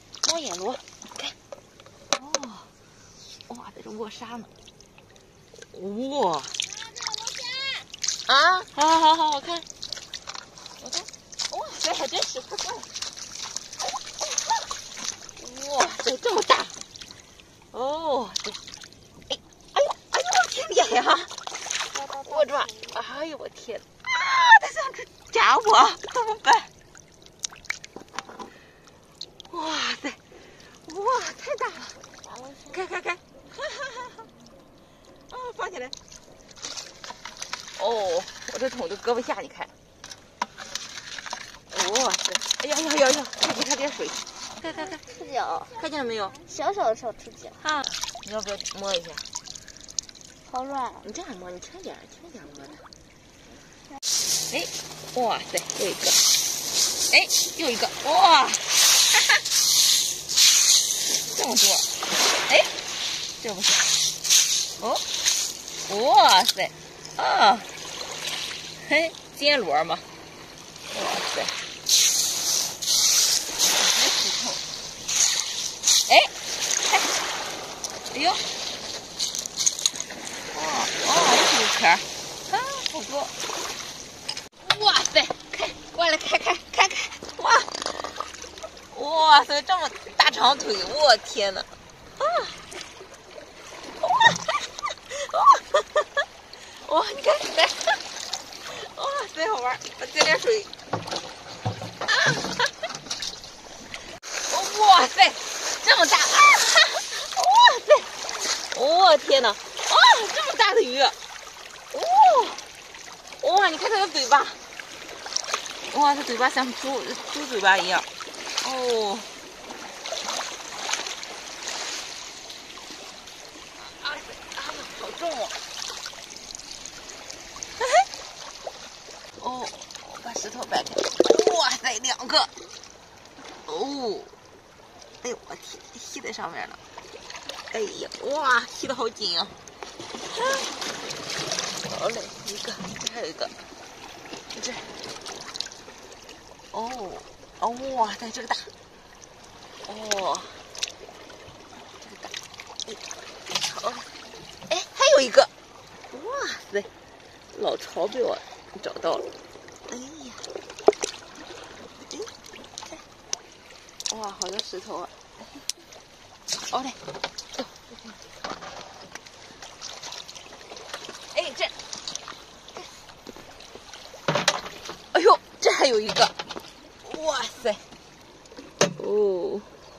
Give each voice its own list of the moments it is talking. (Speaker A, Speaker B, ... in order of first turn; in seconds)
Speaker A: 0.2-1.3, 2.1-2.7, 3.5-4.5, 5.5-6.7, 8.2-9.7, 10.8-12.9, 15.3-16.8, 17.7-18.6, 19.3-21.3, 22.2-26.7, 29.5-32.0, 32.6-34.3, 35.3-35.9, 37.8-39.7, 41.7-45.0, 45.6-46.4, 47.6-49.3, 51.0-52.9, 54.5-56.2, 57.1-59.4, 61.0-62.8, 63.4-64.0, 64.8-65.0, 65.9-67.7, 68.8-70.0, 70.9-71.5, 73.6-74.6, 76.1-76.3, 78.1-78.5, 80.5-83.3, 84.6-88.2, 88.9-91.7, 92.2-92.6, 94.0-98.0, 98.6-100.7, 102.1-102.7, 104.4-111.1, 111.9-112.6, 113.4-114.6, 115.8-119.3, 123.7-125.6, 127.8-128.1, 129.4-132.5, 133.7-134.3, 135.2-136.8, 137.7-139.5, 140.3-140.7, 141.8-143.5, 144.5-145.0, 146.7-148.7, 149.8-150.6, 152.0-152.3, 152.8-154.1, 154.7-155.5, 156.1-156.9, 157.5-159.2, 159.9-160.5, 164.1-165.1, 166.7-167.0, 167.5-168.2, 171.3-171.7, 175.1-176.3, 177.0-177.8, 178.9-179.7
Speaker B: 21.9-22.2, 32.1-32.7, 45.1-45.7, 46.5-47.5, 50.5-51.0